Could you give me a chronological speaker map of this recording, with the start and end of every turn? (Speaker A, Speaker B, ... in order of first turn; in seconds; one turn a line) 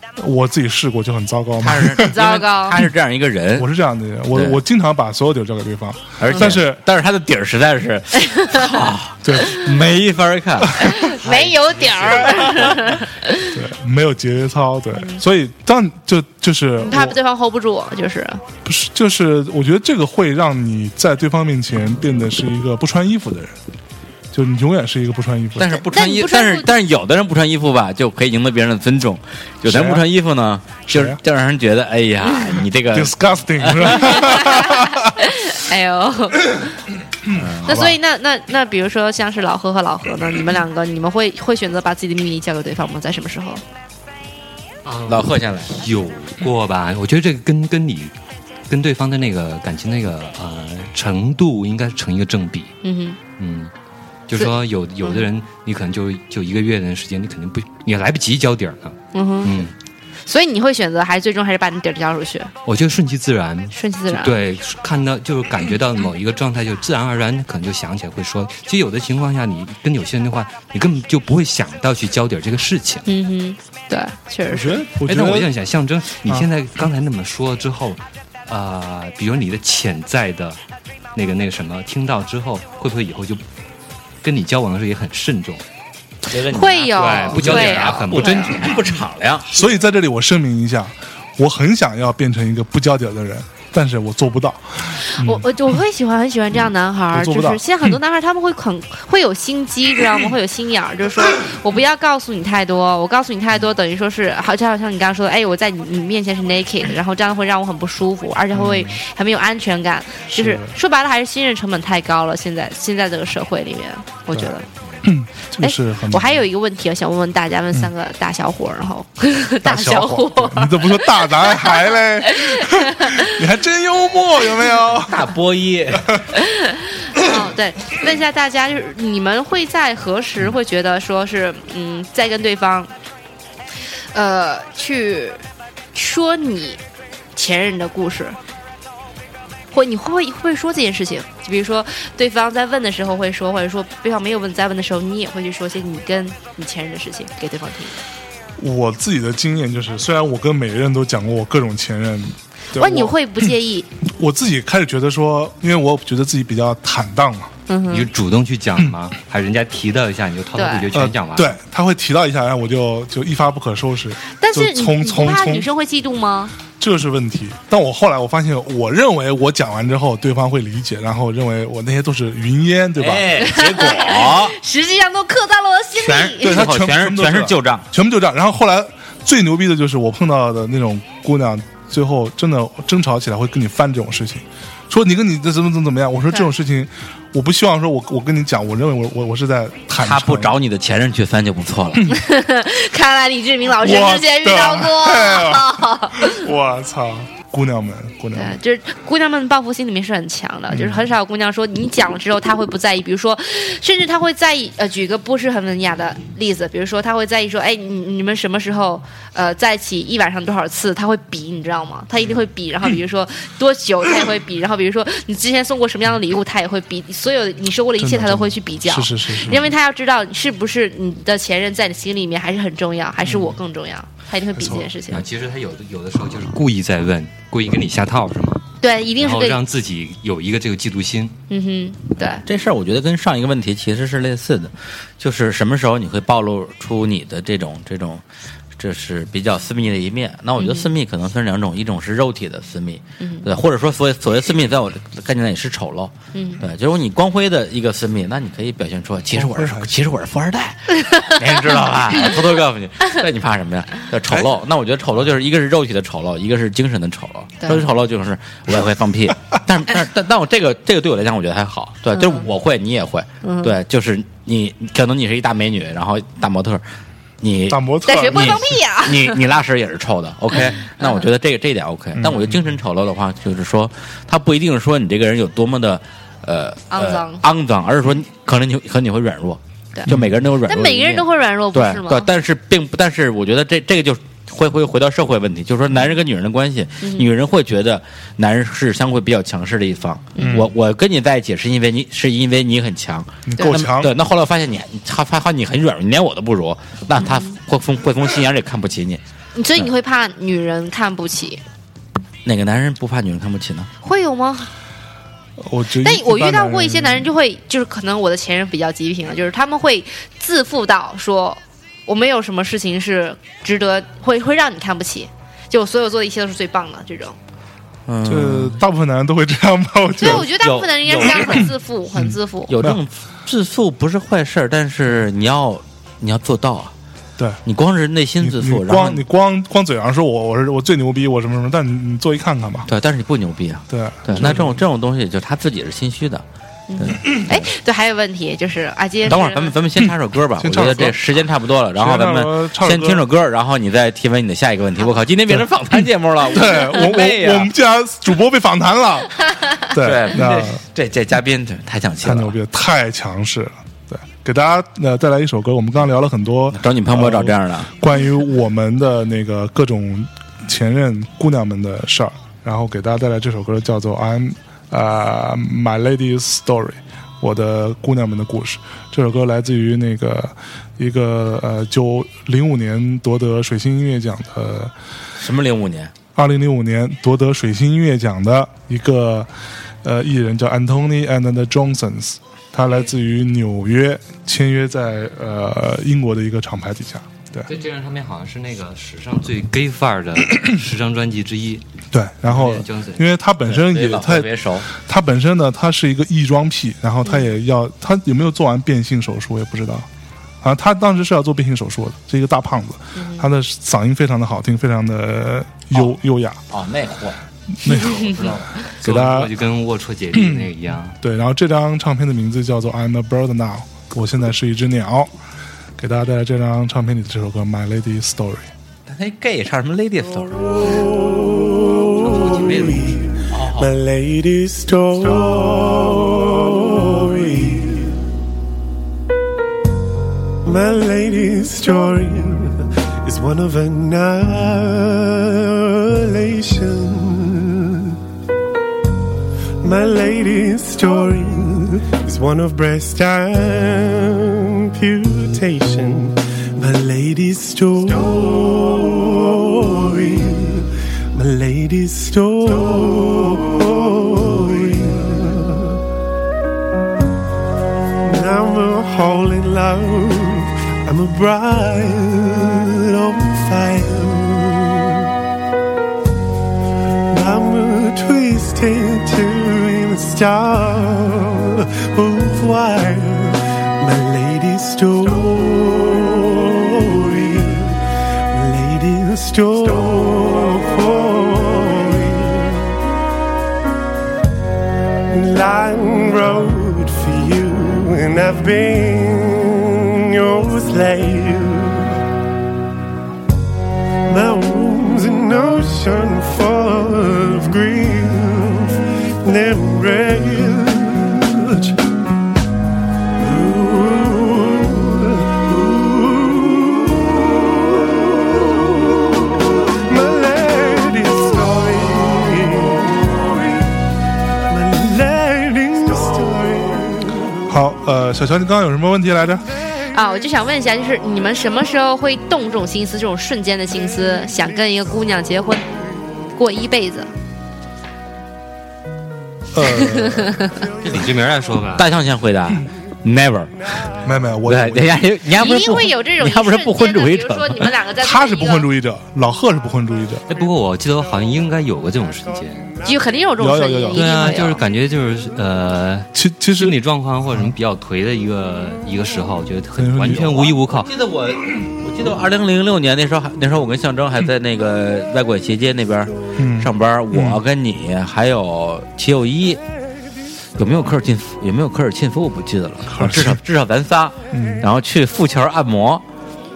Speaker A: 0.1-2.1
Speaker B: 1.6-3.7
Speaker C: 2.0-2.8
Speaker A: 3.5-6.8
Speaker B: 4.3-4.6
Speaker B: 6.2-11.3
Speaker A: 9.2-9.6
Speaker C: 10.9-13.5
Speaker D: 11.3-12.4
Speaker A: 13.5-17.2
Speaker C: 16.8-18.4
Speaker A: 18.6-23.6
Speaker A: 24.3-25.9
Speaker B: 25.5-34.2
Speaker C: 25.9-26.7
Speaker A: 29.6-30.1
Speaker A: 30.9-31.2
Speaker A: 32.9-35.1
Speaker C: 34.0-36.6
Speaker A: 37.2-38.0
Speaker B: 37.3-37.9
Speaker C: 37.6-43.6
Speaker D: 44.8-48.1
Speaker B: 45.1-45.7
Speaker D: 48.7-52.7
Speaker C: 52.8-53.2
Speaker D: 53.4-53.7
Speaker D: 54.3-59.7
Speaker C: 59.1-59.6
Speaker C: 60.2-62.5
Speaker D: 62.6-73.0
Speaker C: 63.7-64.3
Speaker C: 73.0-74.8
Speaker A: 74.5-75.5
Speaker D: 75.0-80.6
Speaker D: 81.1-83.4
Speaker D: 84.2-85.6
Speaker B: 86.3-89.7
Speaker C: 86.5-88.6
Speaker D: 86.9-88.8
Speaker A: 89.5-95.5
Speaker C: 95.2-114.7
Speaker A: 97.1-98.0
Speaker A: 108.5-109.0
Speaker A: 110.3-110.8
Speaker A: 115.0-116.4
Speaker C: 115.6-123.4
Speaker A: 119.6-125.2
Speaker B: 125.0-126.2
Speaker C: 126.3-132.9
Speaker C: 134.1-135.4
Speaker C: 135.9-136.8
Speaker C: 137.3-138.4
Speaker C: 139.7-148.0
Speaker A: 148.6-153.5
Speaker C: 152.7-153.9
Speaker A: 154.1-157.5
Speaker C: 157.7-158.1
Speaker D: 157.9-161.6
Speaker C: 160.5-160.8
Speaker A: 160.9-165.7
Speaker C: 164.4-166.5
Speaker A: 166.8-173.5
Speaker B: 173.0-174.6
Speaker C: 173.4-176.7
Speaker B: 176.0-177.8
Speaker A: 176.4-190.6
Speaker B: 190.0-192.0
Speaker C: 192.1-196.5
Speaker A: 193.8-198.6
Speaker C: 198.3-225.2
Speaker A: 200.7-201.1
Speaker A: 218.0-219.6
Speaker A: 223.2-223.6
Speaker A: 224.5-224.9
Speaker D: 225.1-228.6
Speaker C: 228.8-229.6
Speaker D: 229.2-231.3
Speaker C: 231.5-232.4
Speaker B: 232.4-238.2
Speaker B: 238.8-266.8
Speaker C: 240.6-240.9
Speaker C: 243.2-243.5
Speaker C: 246.3-246.6
Speaker A: 249.3-249.9
Speaker C: 251.1-251.4
Speaker A: 254.3-254.5
Speaker C: 257.6-257.9
Speaker C: 262.1-262.5
Speaker C: 263.4-263.8
Speaker B: 267.4-299.2
Speaker A: 267.7-268.8
Speaker C: 268.0-269.4
Speaker A: 272.1-272.7
Speaker C: 276.9-277.4
Speaker A: 280.1-280.4
Speaker C: 280.6-282.3
Speaker C: 287.0-287.3
Speaker C: 290.4-290.7
Speaker A: 290.4-290.7
Speaker A: 293.4-294.1
Speaker C: 297.2-297.5
Speaker C: 299.5-301.6
Speaker B: 302.4-303.9
Speaker C: 304.0-304.7
Speaker A: 305.6-307.3
Speaker C: 306.0-317.4
Speaker B: 318.1-318.8
Speaker A: 318.2-320.5
Speaker C: 320.2-322.7
Speaker B: 320.2-321.7
Speaker A: 322.1-323.0
Speaker B: 322.7-326.9
Speaker B: 327.6-329.2
Speaker A: 328.4-332.9
Speaker B: 332.9-336.4
Speaker A: 333.9-334.8
Speaker C: 336.9-339.7
Speaker B: 337.0-337.6
Speaker B: 339.2-347.7
Speaker A: 340.0-341.3
Speaker A: 341.9-343.3
Speaker A: 345.5-350.8
Speaker B: 350.0-352.5
Speaker A: 352.2-374.9
Speaker B: 356.7-357.9
Speaker B: 375.4-376.1
Speaker A: 376.3-379.5
Speaker A: 380.0-387.7
Speaker D: 387.7-391.8
Speaker A: 392.1-400.1
Speaker D: 392.4-393.3
Speaker B: 393.6-394.9
Speaker A: 400.6-406.6
Speaker C: 403.1-403.5
Speaker B: 406.7-408.8
Speaker A: 407.8-408.5
Speaker A: 409.0-409.5
Speaker D: 409.0-411.1
Speaker A: 410.3-415.3
Speaker A: 416.0-418.7
Speaker B: 419.1-421.0
Speaker E: 420.9-428.1
Speaker B: 422.2-423.9
Speaker E: 430.6-438.2
Speaker E: 439.8-456.0
Speaker E: 458.2-465.3
Speaker E: 467.3-483.0
Speaker E: 485.3-492.2
Speaker E: 494.3-502.0
Speaker E: 503.4-514.0
Speaker E: 514.7-517.6
Speaker A: 517.7-519.7
Speaker C: 520.1-525.9
Speaker C: 526.5-527.3
Speaker A: 529.7-530.6
Speaker C: 529.8-530.8
Speaker D: 531.0-532.1
Speaker B: 531.9-533.7
Speaker A: 534.2-535.2
Speaker B: 534.6-537.9
Speaker C: 535.6-538.9
Speaker A: 538.2-540.4
Speaker D: 540.5-542.9
Speaker C: 543.0-544.8
Speaker A: 543.6-544.6
Speaker D: 544.1-551.1
Speaker A: 546.3-547.0
Speaker A: 550.0-550.7
Speaker B: 550.3-559.8
Speaker A: 556.6-557.6
Speaker B: 560.8-566.2
Speaker A: 563.0-563.6
Speaker A: 564.5-564.9